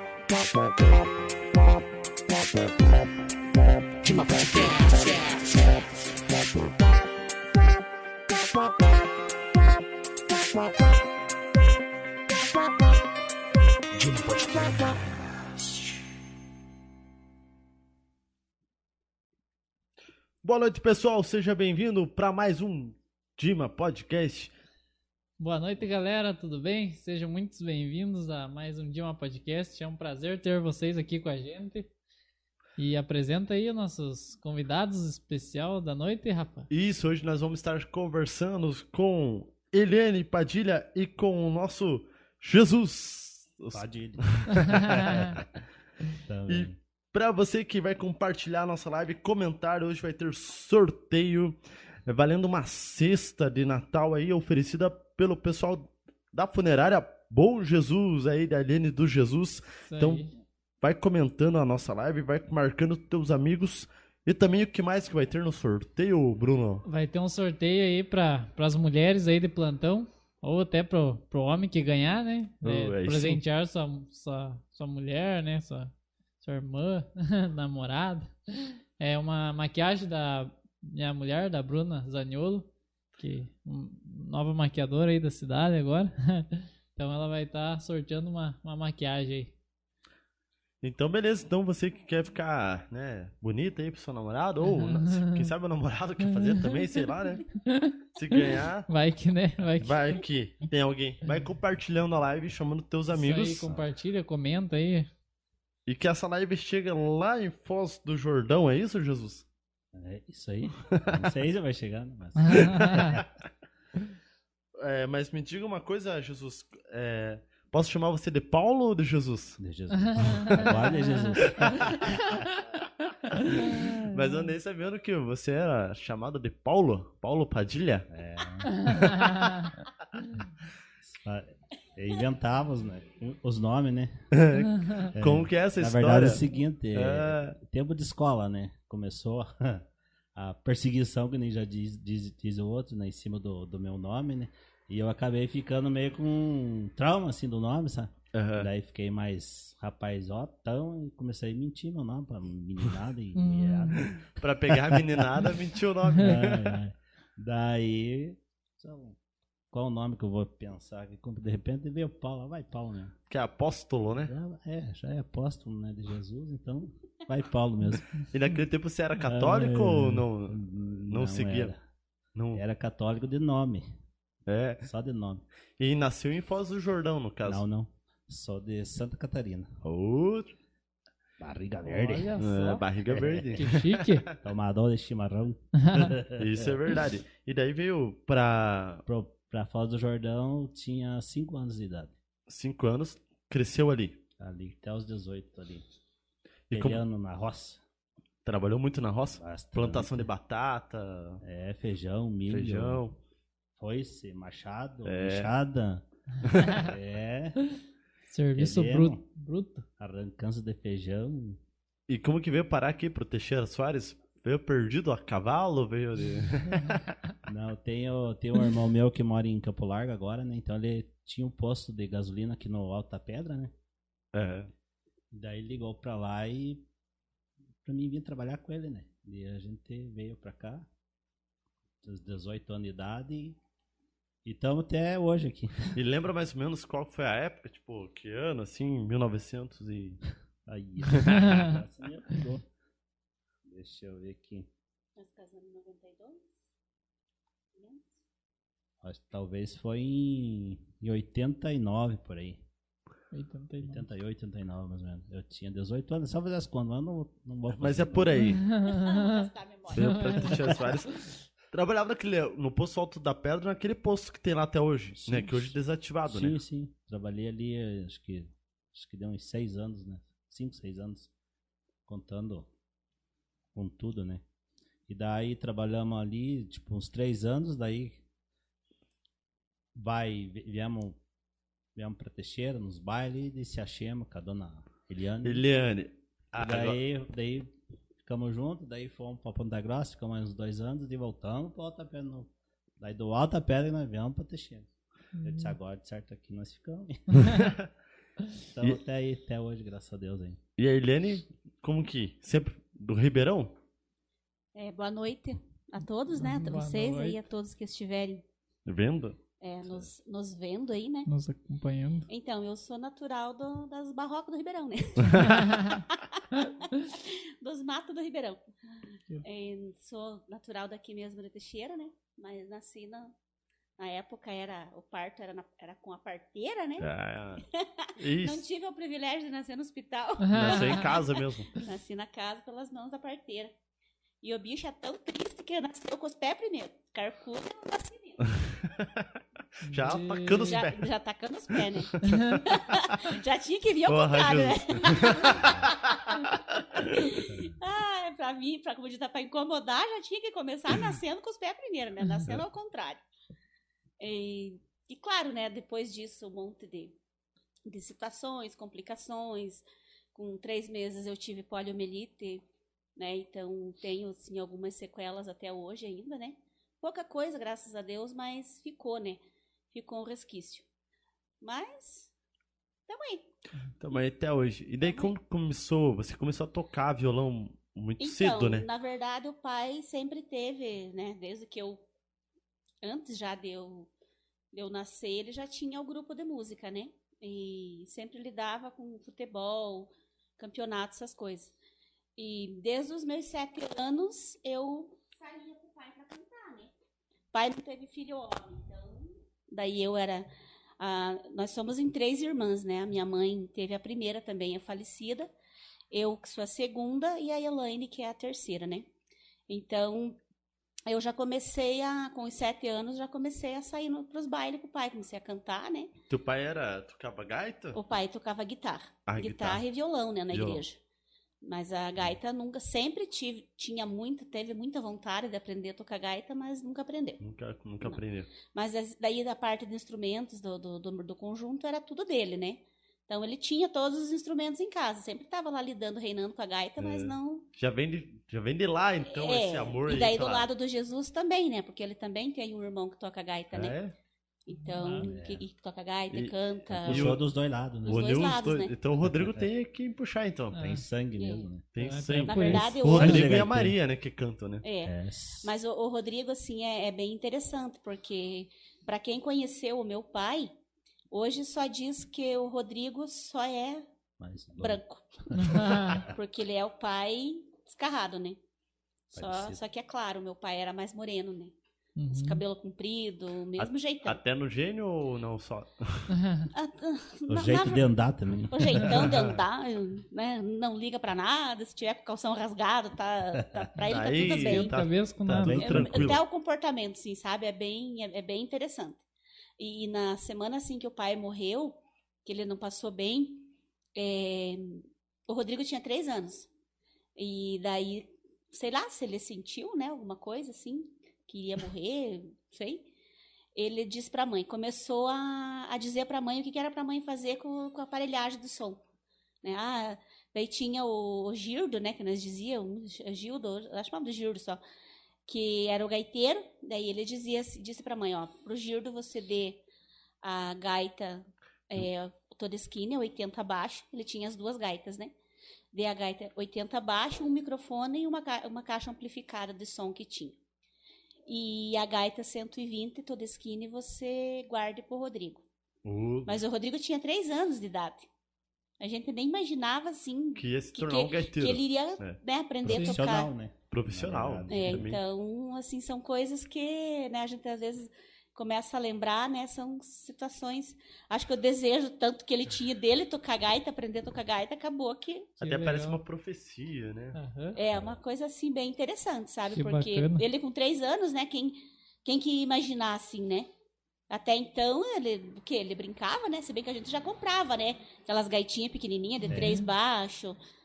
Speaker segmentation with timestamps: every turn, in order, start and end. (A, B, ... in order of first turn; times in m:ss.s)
0:00.4-0:01.0 A
0:04.0-0:05.8 A
0:13.9-0:15.2 A
0:20.4-0:24.5 B
0:25.4-0:31.9 C
0:32.8-0:36.7 C
0:36.7-0:45.4 B
0:43.7-0:45.4 D
0:46.2-0:46.8 D
0:46.5-1:00.3 B
0:59.9-1:00.3 C
1:00.8-1:06.8 B
1:06.8-1:29.5 C
1:12.6-1:13.4 B
1:30.8-1:37.4 B
1:34.6-1:35.5 C
1:36.5-1:36.8 C
1:37.6-1:40.0 C
1:38.2-1:38.9 B
1:39.8-1:43.7 B
1:43.1-1:45.1 C
1:45.8-1:49.4 B
1:49.9-1:53.2 D
1:50.9-1:51.2 B
1:52.4-1:53.2 C
1:52.5-1:53.2 B
1:54.8-1:59.6 B
1:59.6-2:02.5 D
1:59.9-2:02.5 C
2:01.4-2:02.1 B
2:03.3-2:08.1 B
2:08.1-2:08.8 D
2:08.7-2:09.6 C
2:08.9-2:09.3 B
2:11.0-2:14.3 D
2:14.3-2:16.4 B
2:15.1-2:35.4 D
2:16.9-2:17.6 B
2:28.3-2:28.7 B
2:33.3-2:34.1 C
2:34.4-2:36.8 B
2:36.1-2:36.4 C
2:36.2-2:39.2 D
2:39.7-2:43.1 D
2:43.3-2:44.3 B
2:44.3-2:48.1 D
2:48.2-2:51.7 B
2:49.2-2:51.8 D
2:52.3-2:52.6 B
2:52.5-2:53.8 D
2:54.4-2:54.8 B
2:54.8-2:55.4 D
2:55.8-2:57.6 B
2:57.4-2:59.7 D
2:59.8-3:00.5 B
3:01.4-3:02.3 D
3:01.8-3:02.8 C
3:02.3-3:04.3 B
3:03.1-3:03.6 D
3:03.5-3:04.3 C
3:04.4-3:06.8 D
3:05.8-3:06.1 C
3:06.4-3:09.0 B
3:09.0-3:12.1 D
3:12.5-3:14.2 B
3:14.4-3:15.8 D
3:16.7-3:17.0 B
3:16.7-3:17.8 D
3:18.4-3:21.4 B
3:19.4-3:20.3 D
3:21.4-3:23.0 D
3:22.5-3:23.2 B
3:23.8-3:26.0 D
3:25.0-3:25.5 B
3:26.6-3:27.7 D
3:28.3-3:29.8 C
3:28.6-3:29.2 D
3:30.0-3:31.6 D
3:32.1-3:37.2 B
3:37.5-3:43.7 D
3:44.3-3:44.7 B
3:45.3-3:46.8 D
3:47.8-3:50.9 D
3:52.0-3:53.6 D
3:54.4-3:56.0 D
3:55.9-4:00.2 B
4:00.6-4:02.7 D
4:01.1-4:01.6 B
4:03.6-4:04.7 D
4:05.2-4:06.5 E
4:07.7-4:08.1 E
4:09.0-4:12.6 D
4:13.3-4:14.0 C
4:13.8-4:18.4 D
4:17.7-4:18.6 B
4:18.3-4:20.7 C
4:18.7-4:20.3 E
4:19.9-4:26.6 B
4:25.1-4:25.8 D
4:26.3-4:31.3 D
4:32.1-4:32.7 D
4:33.7-4:34.4 D
4:35.1-4:38.2 D
4:39.9-4:41.2 D
4:42.0-4:45.6 D
4:45.4-4:47.0 B
4:46.5-4:47.7 D
4:48.2-4:54.9 D
4:55.3-4:55.8 C
4:55.4-4:57.6 D
4:57.5-4:57.9 B
4:58.7-5:00.6 D
5:00.8-5:03.7 B
5:04.7-5:08.4 E
5:06.4-5:07.4 C
5:08.8-5:09.4 B
5:09.6-5:11.3 E
5:11.3-5:12.3 C
5:12.3-5:18.6 E
5:15.6-5:16.0 C
5:19.4-5:23.3 E
5:24.0-5:27.1 E
5:27.0-5:27.6 B
5:27.7-5:33.7 E
5:28.2-5:28.6 B
5:30.4-5:31.1 C
5:30.5-5:31.7 B
5:34.4-5:38.4 E
5:38.5-5:39.3 B
5:39.8-5:41.0 B
5:39.8-5:40.8 C
5:40.6-5:46.3 E
5:42.2-5:43.0 B
5:42.2-5:42.6 C
5:44.0-5:47.1 B
5:47.0-5:53.2 E
5:54.2-5:57.2 E
5:57.9-6:02.6 E
6:03.2-6:09.4 E
6:09.9-6:10.8 E
6:11.6-6:12.3 E
6:13.1-6:13.5 E
6:14.0-6:18.8 B
6:15.0-6:15.3 E
6:18.2-6:22.0 E
6:23.0-6:24.1 E
6:24.7-6:31.7 E
6:32.4-6:36.9 E
6:37.5-6:40.5 E
6:41.0-6:45.5 E
6:46.1-6:49.1 E
6:49.7-6:50.4 E
6:51.1-6:56.1 E
6:56.3-6:58.0 B
6:57.9-7:01.0 E
6:59.3-6:59.8 B
7:00.5-7:00.8 B
7:01.6-7:07.4 E
7:07.4-7:08.5 B
7:08.0-7:17.7 E
7:17.0-7:20.7 B
7:19.3-7:24.0 E
7:23.7-7:24.1 B
7:24.6-7:27.4 E
7:24.9-7:25.2 C
7:25.2-7:25.6 D
7:26.3-7:27.4 B
7:26.9-7:28.4 D
7:28.0-7:28.9 E
7:28.0-7:30.8 B
7:29.2-7:29.7 D
7:30.7-7:31.0 C
7:30.8-7:31.8 D
7:31.4-7:31.7 E
7:31.9-7:34.8 B
7:32.0-7:32.9 C
7:32.5-7:33.6 E
7:32.6-7:34.0 D
7:34.8-7:40.7 E
7:35.0-7:35.7 D
7:41.3-7:44.0 E
7:44.4-7:46.3 D
7:44.8-7:48.6 E
7:45.6-7:46.2 C
7:49.3-7:51.7 E
7:49.3-7:49.8 D
7:52.2-7:52.6 C
7:52.3-7:54.4 E
7:53.8-7:56.4 B
7:56.3-7:56.7 C
7:56.7-7:58.1 E
7:57.5-7:59.3 D
7:58.7-8:05.0 E
8:04.0-8:06.4 B
8:04.4-8:05.8 C
8:05.4-8:06.4 D
8:05.8-8:09.2 E
8:09.8-8:16.7 E
8:17.4-8:23.1 E
8:23.7-8:29.0 E
8:29.6-8:34.8 E
8:35.4-8:39.8 E
8:40.4-8:45.3 E
8:45.9-8:50.6 E
8:51.5-8:55.6 E
8:56.0-8:56.6 B
8:56.4-8:58.3 E
8:59.0-9:03.5 E
9:00.6-9:02.4 B
9:02.8-9:05.1 D
9:02.9-9:03.2 C
9:03.9-9:05.2 B
9:04.7-9:15.5 E
9:15.6-9:16.2 C
9:15.6-9:17.4 B
9:17.3-9:17.8 C
9:17.7-9:23.7 E
9:19.7-9:20.4 C
9:24.3-9:30.6 E
9:29.5-9:29.8 C
9:29.5-9:29.8 D